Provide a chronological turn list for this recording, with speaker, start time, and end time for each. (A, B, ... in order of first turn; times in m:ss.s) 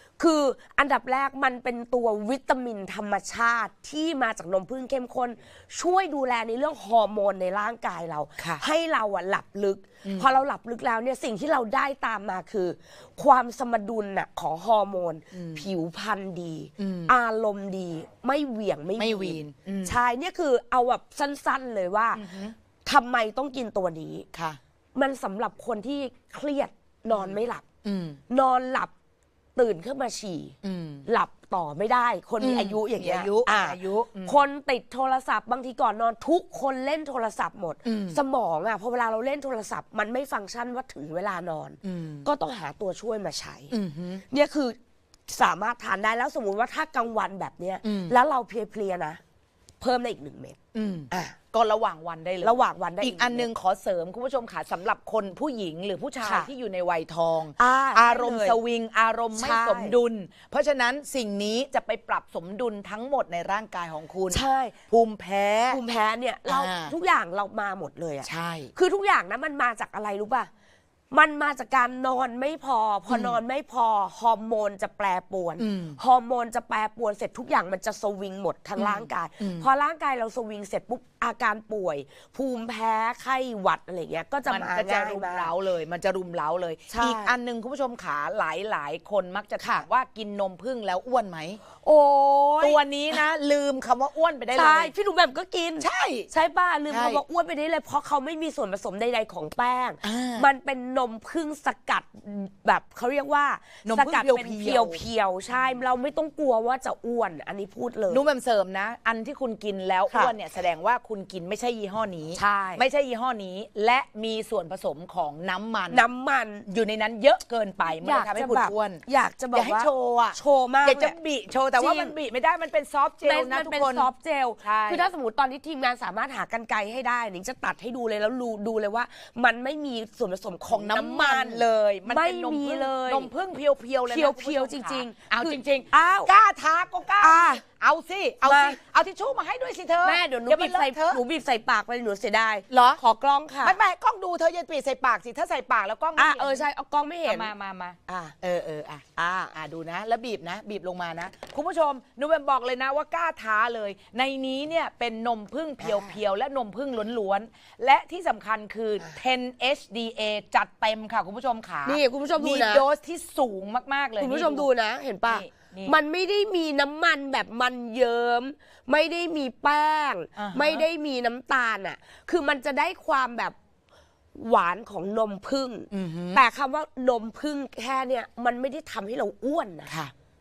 0:00.2-0:22.2 A
0:10.0-0:10.3 B
0:15.3-0:15.7 B
0:16.8-0:17.1 B
0:19.0-0:20.0 B
0:22.2-0:22.6 B
0:22.8-0:24.3 A
0:24.3-0:24.6 B
0:25.0-0:27.6 A
0:27.1-0:28.2 B
0:28.3-0:28.9 A
0:29.6-0:43.7 A
0:30.6-0:31.1 B
0:32.4-0:34.4 B
0:37.8-0:38.2 B
0:41.8-0:42.3 B
0:43.7-0:44.2 B
0:44.3-0:44.8 A
0:45.3-0:49.2 A
0:47.8-0:48.2 B
0:49.8-0:50.6 A
0:50.7-1:05.8 B
0:51.1-0:51.4 A
0:52.4-0:53.5 A
0:56.2-0:56.5 A
0:57.6-0:58.6 A
0:59.3-1:00.0 A
1:04.3-1:04.8 A
1:05.7-1:10.5 A
1:06.5-1:07.0 B
1:08.2-1:08.7 B
1:11.1-1:25.5 A
1:13.1-1:13.4 B
1:15.6-1:16.0 B
1:18.8-1:19.7 B
1:24.5-1:31.6 B
1:26.9-1:27.4 A
1:29.6-1:29.8 A
1:31.8-1:33.2 A
1:32.6-1:34.9 B
1:34.5-1:48.2 A
1:35.8-1:36.3 B
1:36.9-1:37.2 B
1:40.0-1:40.5 B
1:43.8-1:45.0 B
1:48.1-1:56.1 B
1:52.4-1:52.8 A
1:55.9-1:56.7 A
1:56.7-2:04.1 B
1:58.0-2:01.2 A
2:01.8-2:02.2 A
2:03.2-2:13.3 A
2:04.6-2:05.1 B
2:10.7-2:21.2 B
2:14.1-2:16.3 A
2:17.2-2:17.6 A
2:18.4-2:18.8 A
2:20.0-2:23.8 A
2:22.7-2:23.0 B
2:23.6-2:26.6 B
2:26.2-2:27.5 A
2:27.3-2:44.7 B
2:28.1-2:28.3 A
2:29.2-2:29.5 A
2:35.8-2:36.2 A
2:41.8-2:42.9 A
2:44.2-2:53.6 A
2:45.2-2:46.0 B
2:50.4-2:50.9 B
2:54.4-2:59.9 A
2:55.9-2:56.4 B
2:59.9-3:00.1 B